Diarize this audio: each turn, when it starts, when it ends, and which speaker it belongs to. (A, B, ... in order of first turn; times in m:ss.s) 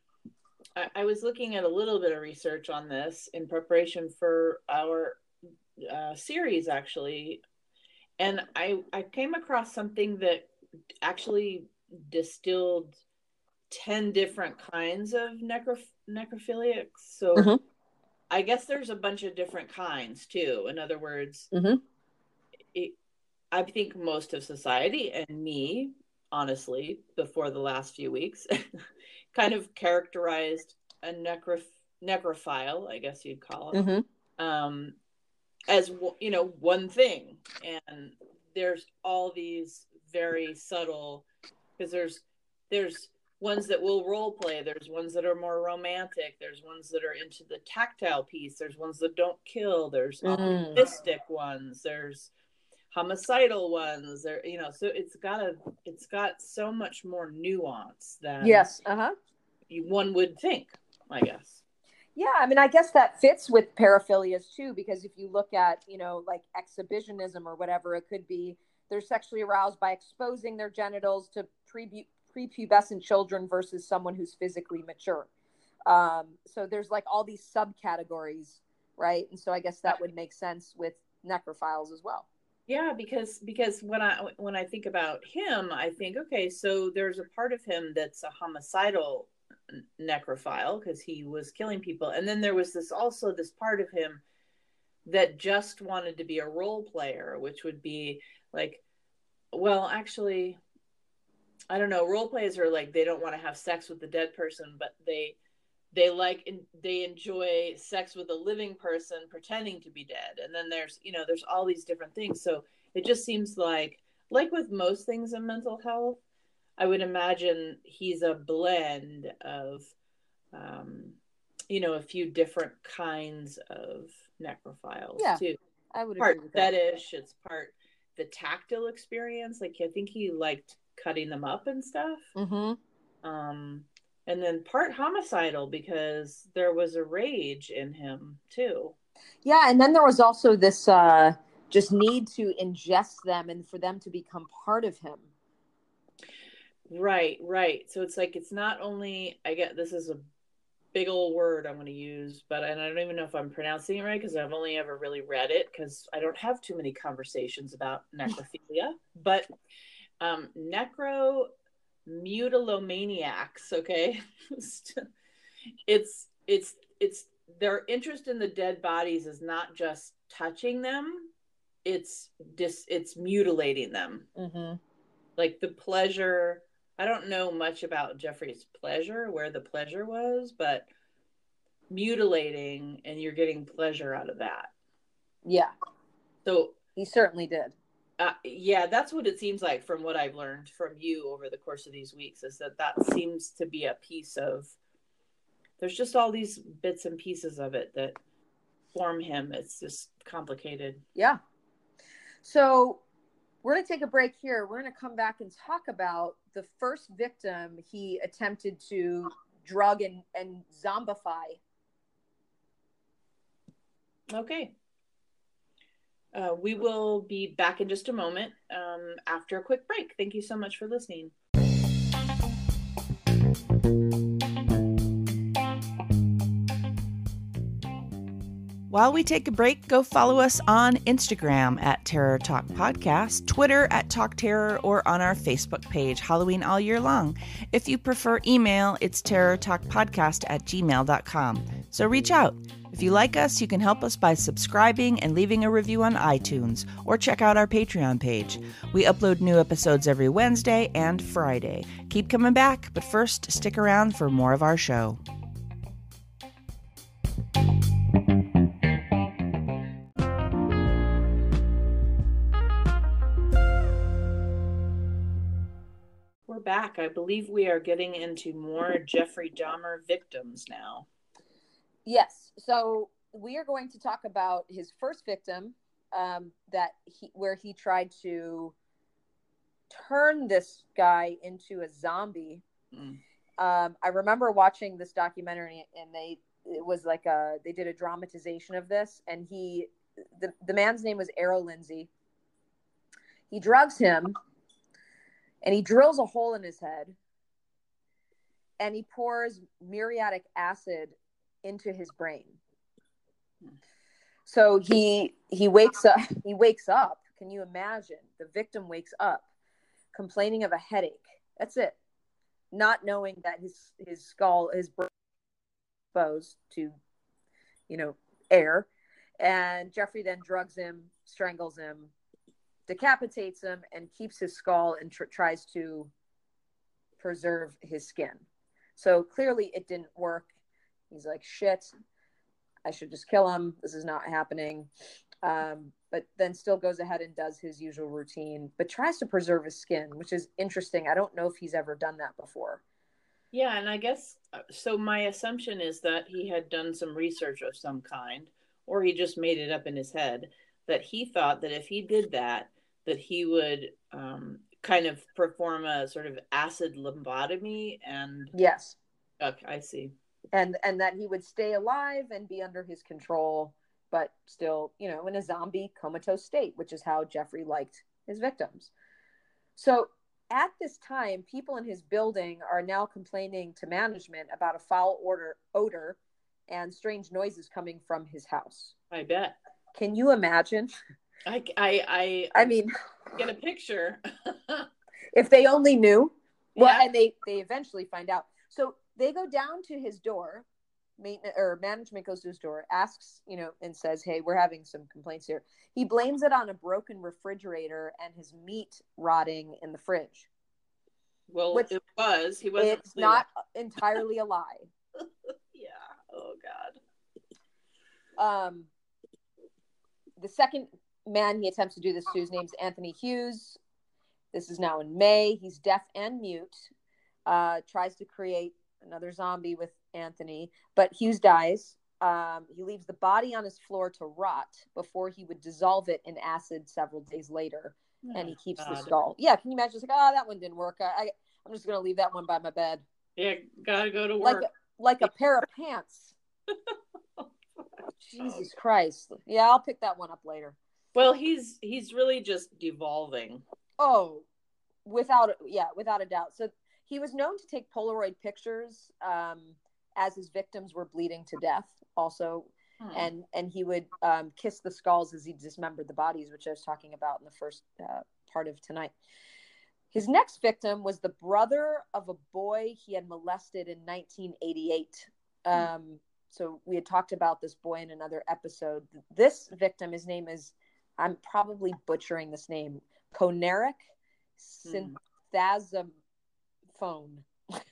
0:00.8-0:05.2 A
0:05.8-0:07.4 A
0:08.2-0:10.5 A
0:11.0-0:13.0 A
0:13.7-0:17.5 A
0:18.3-0:21.5 A
0:21.5-0:21.8 B
0:23.5-0:33.8 A
0:33.7-0:34.0 B
0:34.4-0:35.0 A
0:35.7-0:41.2 A
0:41.8-0:52.3 A
0:50.2-0:50.8 B
0:52.9-0:58.7 A
0:58.4-0:59.1 B
0:59.7-1:01.6 A
1:02.2-1:15.3 B
1:15.9-1:22.2 B
1:22.7-1:34.2 A
1:35.0-1:38.8 A
1:39.5-1:40.6 A
1:41.7-1:45.4 A
1:45.9-1:56.2 A
1:56.8-1:59.9 A
2:00.5-2:01.2 A
2:01.7-2:05.6 A
2:05.9-2:06.7 B
2:06.2-2:12.3 A
2:12.4-2:12.8 B
2:13.2-2:18.9 A
2:19.4-2:25.3 B
2:26.9-2:30.2 A
2:30.9-2:39.5 A
2:40.2-2:41.5 A
2:42.0-2:45.1 A
2:45.8-2:51.3 A
2:51.8-2:54.3 A
2:54.4-2:54.8 B
2:55.4-3:00.9 A
3:01.9-3:04.7 A
3:05.4-3:05.7 B
3:06.4-3:06.8 A
3:07.0-3:07.8 B
3:08.2-3:14.8 A
3:15.8-3:18.2 A
3:18.9-3:21.0 A
3:22.4-3:23.0 B
3:23.6-3:31.6 B
3:34.3-3:34.7 A
3:36.3-3:41.3 A
3:48.9-4:15.2 C
4:26.4-4:31.1 A
4:32.0-4:38.7 B
4:39.9-4:42.6 B
4:42.9-4:43.2 A
4:43.6-4:52.1 B
4:53.5-4:54.4 B
4:55.6-4:57.2 B
4:58.8-5:02.6 B
5:04.4-5:09.4 B
5:10.1-5:12.0 B
5:12.7-5:15.1 B
5:16.1-5:17.0 B
5:17.9-5:18.9 B
5:19.4-5:22.1 B
5:22.9-5:26.1 B
5:27.2-5:28.4 B
5:29.0-5:30.5 B
5:31.1-5:31.9 B
5:32.8-5:34.9 B
5:35.4-5:42.8 B
5:43.5-5:58.5 A
5:58.5-5:59.0 B
5:59.4-6:00.1 A
6:00.5-6:08.9 B
6:09.8-6:16.2 B
6:16.7-6:18.9 B
6:19.1-6:19.6 A
6:19.9-6:20.9 B
6:21.4-6:22.8 A
6:22.5-6:22.9 B
6:23.3-6:24.9 A
6:25.3-6:30.6 B
6:26.8-6:27.0 A
6:31.2-6:40.5 B
6:41.5-6:43.4 A
6:42.8-6:44.9 B
6:45.7-6:47.0 A
6:48.4-6:48.9 B
6:50.4-6:53.8 B
6:54.5-6:56.9 B
6:57.4-7:13.0 B
7:08.2-7:09.1 A
7:13.4-7:14.7 A
7:14.4-7:16.4 B
7:16.7-7:18.7 A
7:18.3-7:20.8 B
7:21.1-7:23.6 A
7:24.0-7:24.4 B
7:25.0-7:39.1 B
7:33.0-7:33.3 A
7:40.1-7:54.0 B
7:54.6-7:56.1 B
7:54.8-7:55.1 A
7:57.0-7:57.4 B